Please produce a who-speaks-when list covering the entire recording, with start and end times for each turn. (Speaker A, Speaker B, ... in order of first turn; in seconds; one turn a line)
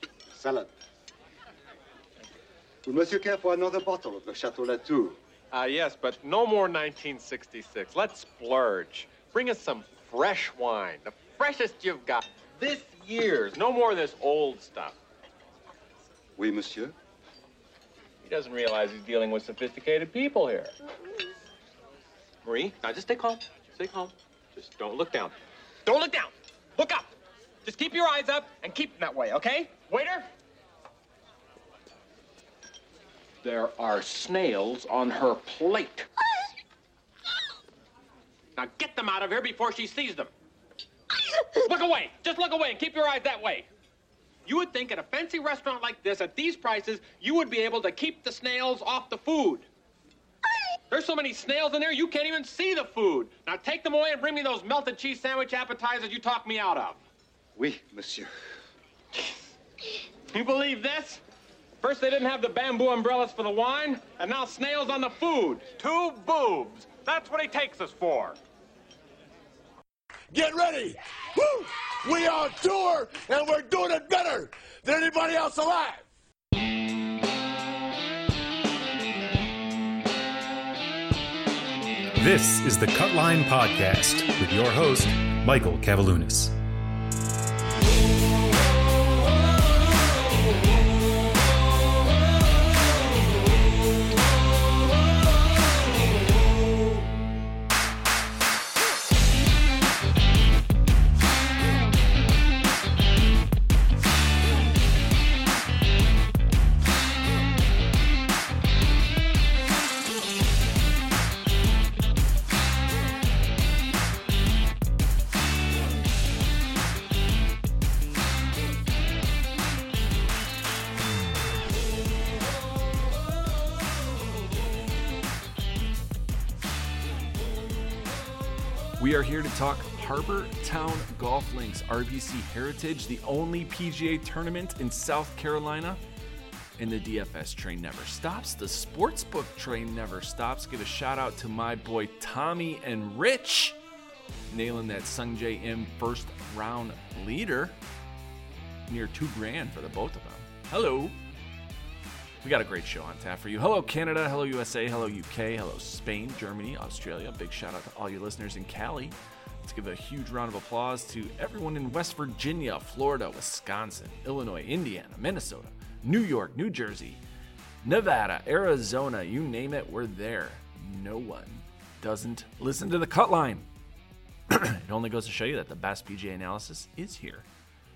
Speaker A: 0.3-0.7
Speaker A: 2.9-5.2
Speaker B: 5.5-15.0
Speaker A: 16.4-16.9
Speaker B: 18.2-20.7
Speaker B: 22.4-27.1
Speaker B: 27.6-30.3
Speaker B: 33.4-36.1
Speaker B: 38.5-40.3
Speaker B: 41.6-43.7
Speaker B: 44.5-49.7
Speaker B: 50.9-57.0
Speaker A: 57.5-58.3
Speaker B: 59.1-59.4
Speaker B: 60.3-61.2
Speaker B: 61.8-68.4
Speaker C: 70.3-76.0
Speaker D: 82.2-86.5
Speaker E: 129.0-136.0
Speaker E: 136.8-143.8
Speaker E: 144.5-147.8
Speaker E: 148.9-151.2
Speaker E: 152.4-167.2
Speaker E: 167.8-173.7
Speaker E: 174.5-177.5